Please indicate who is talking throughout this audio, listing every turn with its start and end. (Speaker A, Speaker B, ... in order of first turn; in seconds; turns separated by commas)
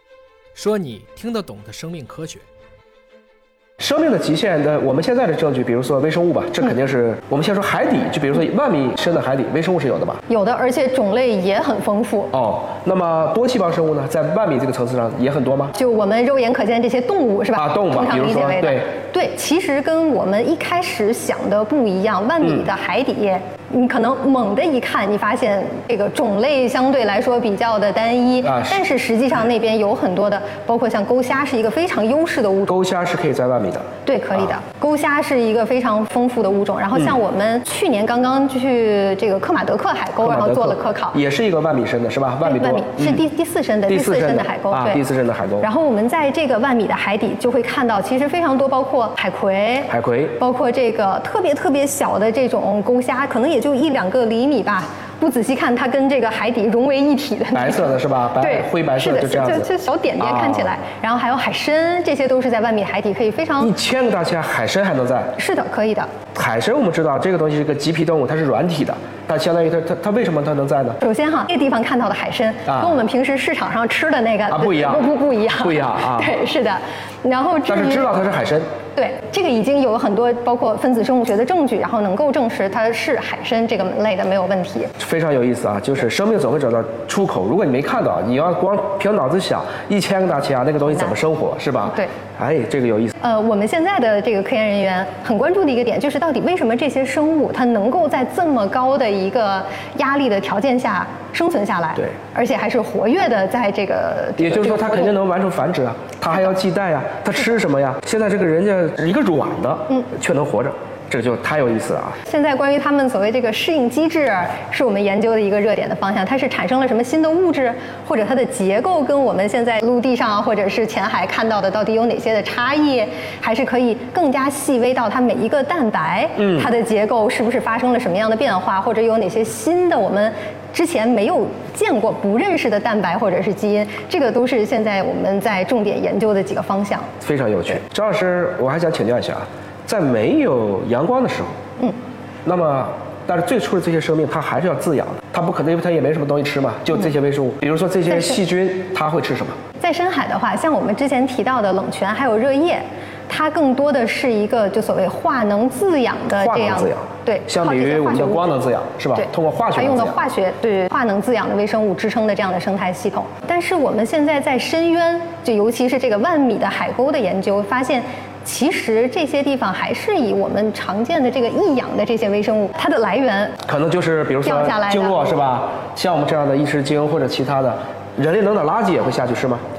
Speaker A: 0.5-2.5, Speaker B: 3.8-10.2, Speaker C: 10.3-12.3, Speaker B: 12.3-15.7, Speaker C: 15.7-32.8, Speaker B: 17.6-18.9, Speaker B: 28.4-28.8, Speaker B: 32.7-33.9, Speaker C: 34.0-41.2, Speaker B: 40.2-43.2, Speaker C: 42.4-45.0, Speaker B: 43.9-45.7, Speaker C: 45.6-63.7, Speaker B: 49.9-50.4, Speaker B: 57.5-60.7, Speaker B: 63.6-65.3, Speaker C: 65.4-66.1, Speaker B: 66.3-71.0, Speaker C: 71.0-78.2, Speaker B: 72.7-73.0, Speaker B: 74.5-76.3, Speaker B: 77.7-78.7, Speaker C: 78.9-84.9, Speaker B: 85.0-93.1, Speaker C: 93.2-105.2, Speaker B: 104.4-112.2, Speaker C: 112.2-137.1, Speaker B: 137.2-141.6, Speaker B: 142.4-149.6, Speaker C: 148.1-148.4, Speaker C: 149.8-158.5, Speaker B: 156.4-160.2, Speaker C: 159.2-173.6, Speaker B: 173.7-179.6, Speaker C: 174.4-175.3